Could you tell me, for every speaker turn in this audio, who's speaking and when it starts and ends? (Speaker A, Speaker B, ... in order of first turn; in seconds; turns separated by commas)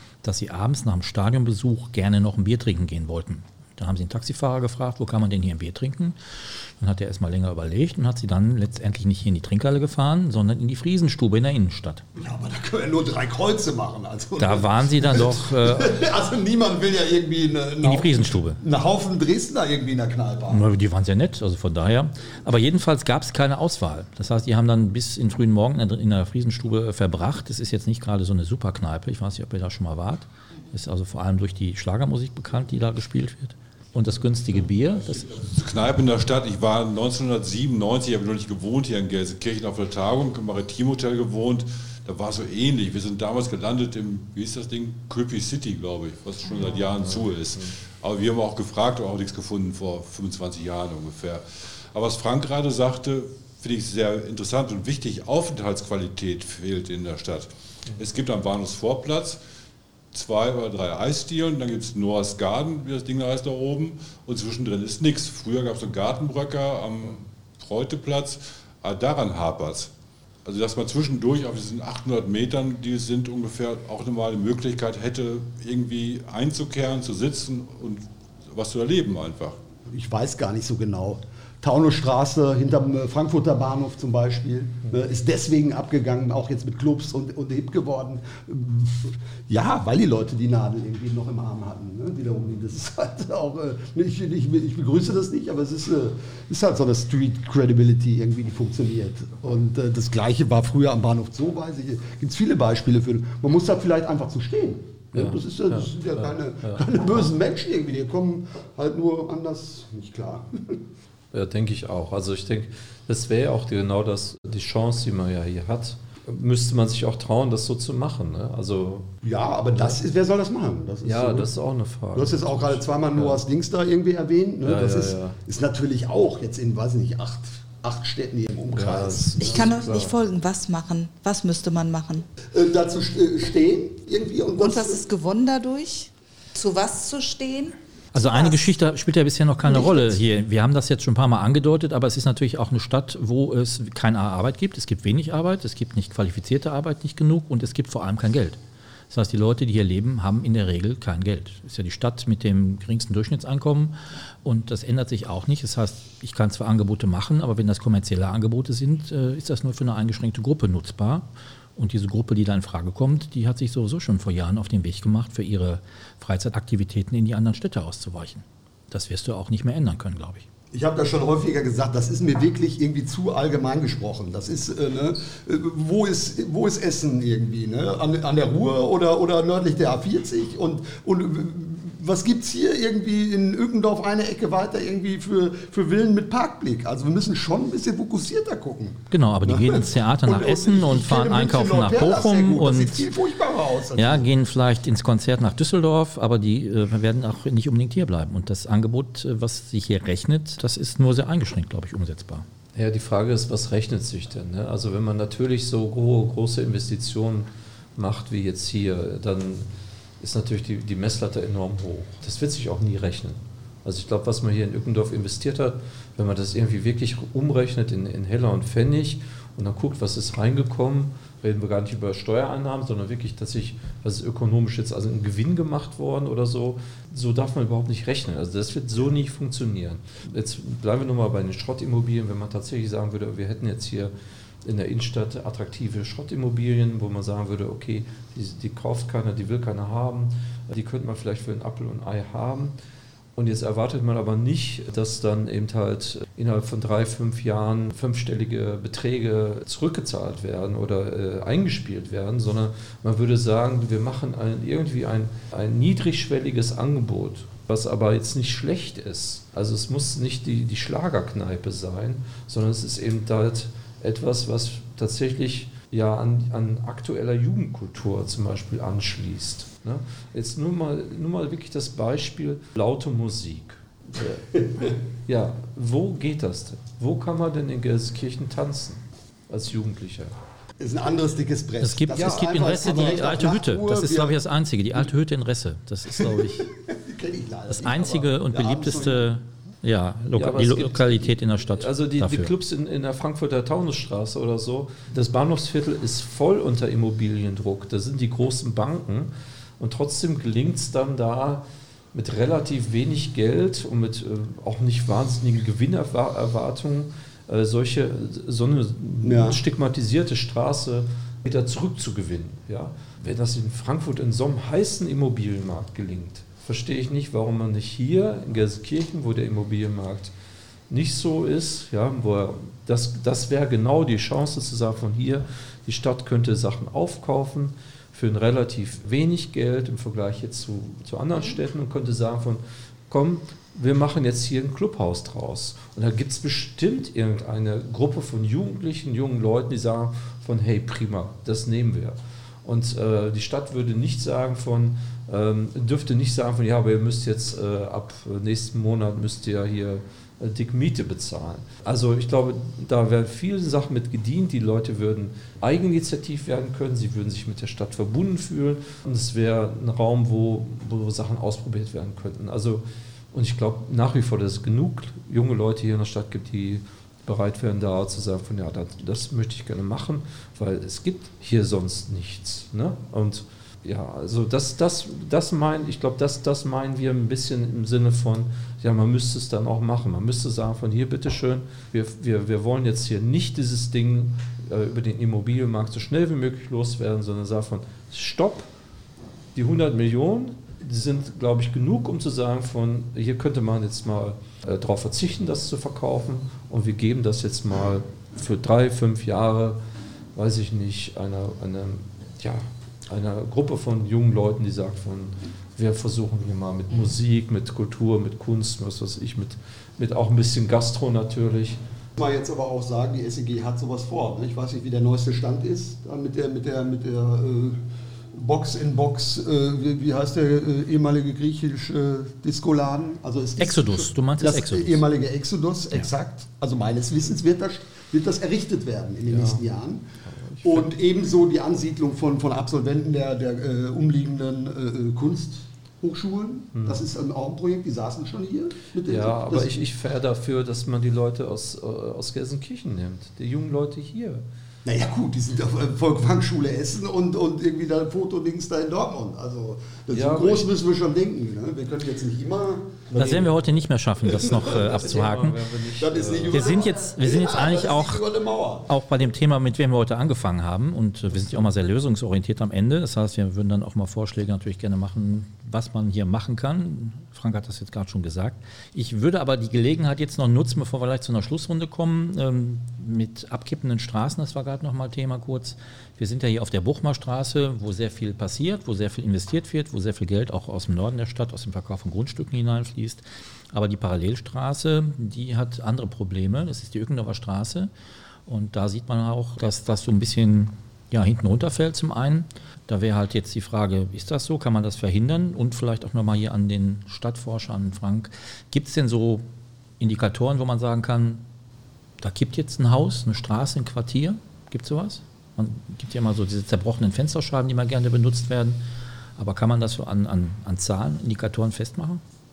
Speaker A: 0.2-12.1, Speaker B: 12.2-20.7, Speaker A: 14.4-16.0, Speaker A: 17.8-18.6, Speaker A: 20.5-35.4, Speaker C: 35.1-51.4, Speaker D: 47.0-47.7, Speaker C: 51.9-59.4, Speaker C: 60.1-69.9, Speaker C: 70.5-79.6, Speaker B: 79.9-110.8, Speaker D: 105.2-107.3, Speaker D: 111.3-119.1, Speaker B: 119.2-121.5, Speaker D: 121.0-123.4, Speaker B: 122.1-129.8, Speaker D: 124.6-125.4, Speaker D: 128.7-130.1, Speaker E: 129.4-132.3, Speaker B: 132.5-135.0, Speaker E: 134.6-138.6, Speaker A: 138.1-148.6, Speaker A: 149.1-170.4, Speaker B: 170.7-194.3, Speaker A: 189.1-193.1, Speaker A: 193.9-202.5, Speaker D: 202.8-209.7, Speaker D: 210.2-234.1, Speaker D: 234.7-242.8, Speaker D: 243.4-280.4, Speaker B: 280.8-284.4, Speaker A: 281.8-286.7, Speaker D: 282.2-283.3, Speaker B: 286.1-289.3, Speaker A: 287.7-292.5, Speaker D: 290.3-320.3, Speaker B: 309.2-309.6, Speaker D: 320.9-388.7, Speaker D: 389.6-399.8, Speaker D: 400.4-411.8, Speaker B: 412.2-417.8, Speaker B: 418.3-430.1, Speaker A: 423.6-425.0, Speaker D: 429.3-429.6, Speaker D: 430.3-430.9, Speaker B: 430.6-439.8, Speaker D: 436.8-437.0, Speaker D: 439.1-444.5, Speaker B: 444.9-453.6, Speaker D: 450.1-450.7, Speaker A: 453.2-455.6, Speaker B: 454.2-455.2, Speaker D: 454.9-456.8, Speaker B: 455.9-458.9, Speaker A: 456.5-458.2, Speaker A: 458.9-487.9, Speaker A: 488.5-499.4, Speaker A: 500.0-501.4, Speaker A: 502.2-508.8, Speaker A: 509.4-512.2